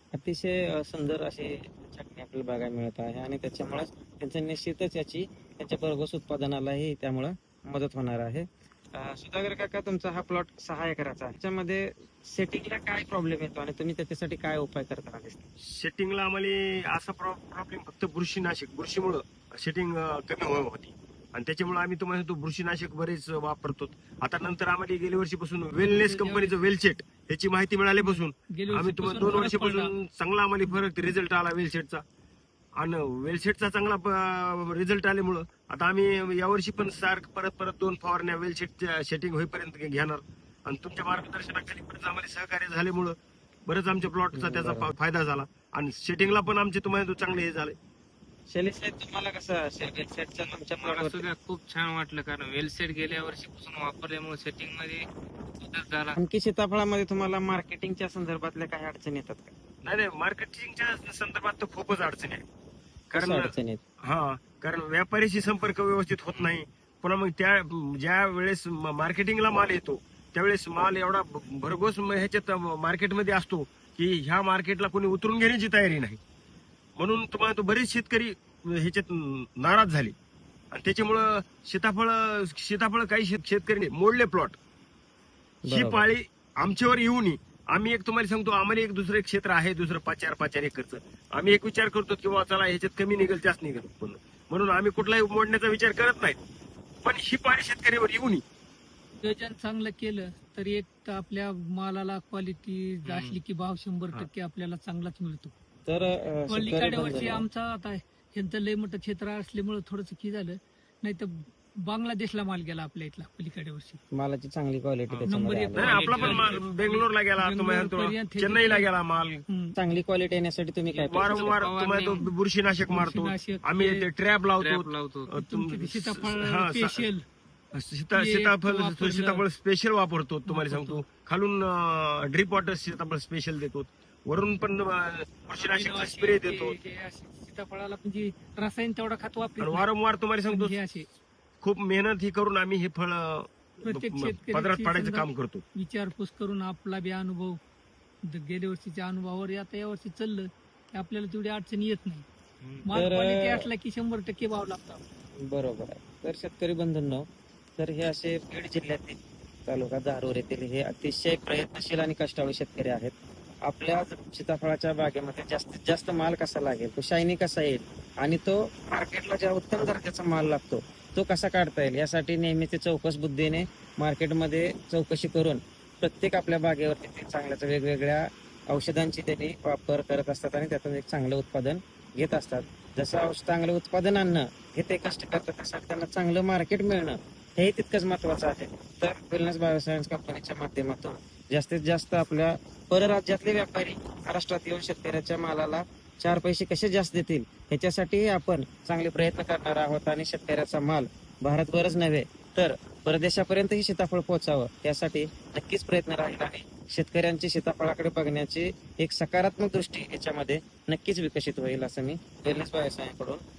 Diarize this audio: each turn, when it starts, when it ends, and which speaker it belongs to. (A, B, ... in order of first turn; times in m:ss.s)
0:00.1-0:15.4 A
0:15.6-0:32.0 B
0:25.8-0:26.7 C
0:28.0-0:29.9 C
0:32.8-0:47.8 B
0:44.3-0:44.9 A
0:48.5-0:51.2 A
0:50.8-0:55.1 D
0:55.6-0:56.2 D
0:56.2-0:59.5 A
0:59.9-1:02.4 B
1:03.1-1:03.5 B
1:03.1-1:03.8 A
1:04.0-1:16.2 B
1:17.0-1:20.2 B
1:20.7-1:24.6 B
1:25.6-1:26.1 A
1:25.7-1:36.4 B
1:37.0-1:38.4 B
1:39.2-1:45.5 C
1:43.0-1:43.4 D
1:45.9-1:47.4 A
1:46.5-1:54.0 C
1:54.1-1:55.9 A
1:55.1-1:56.6 D
1:55.3-1:58.9 C
1:55.8-1:59.4 B
1:59.5-1:59.7 C
1:59.8-2:01.4 A
2:01.0-2:07.1 B
2:01.0-2:02.2 D
2:02.9-2:04.1 C
2:04.6-2:05.4 D
2:05.4-2:07.2 C
2:07.7-2:16.8 B
2:08.1-2:09.4 C
2:10.4-2:11.0 C
2:15.6-2:19.9 C
2:19.6-2:20.8 B
2:20.5-2:21.1 C
2:21.6-2:25.6 B
2:23.8-2:27.6 C
2:28.3-2:32.2 C
2:32.6-2:32.9 D
2:32.8-2:35.0 C
2:32.9-2:33.6 A
2:35.4-2:37.3 A
2:37.8-3:33.4 A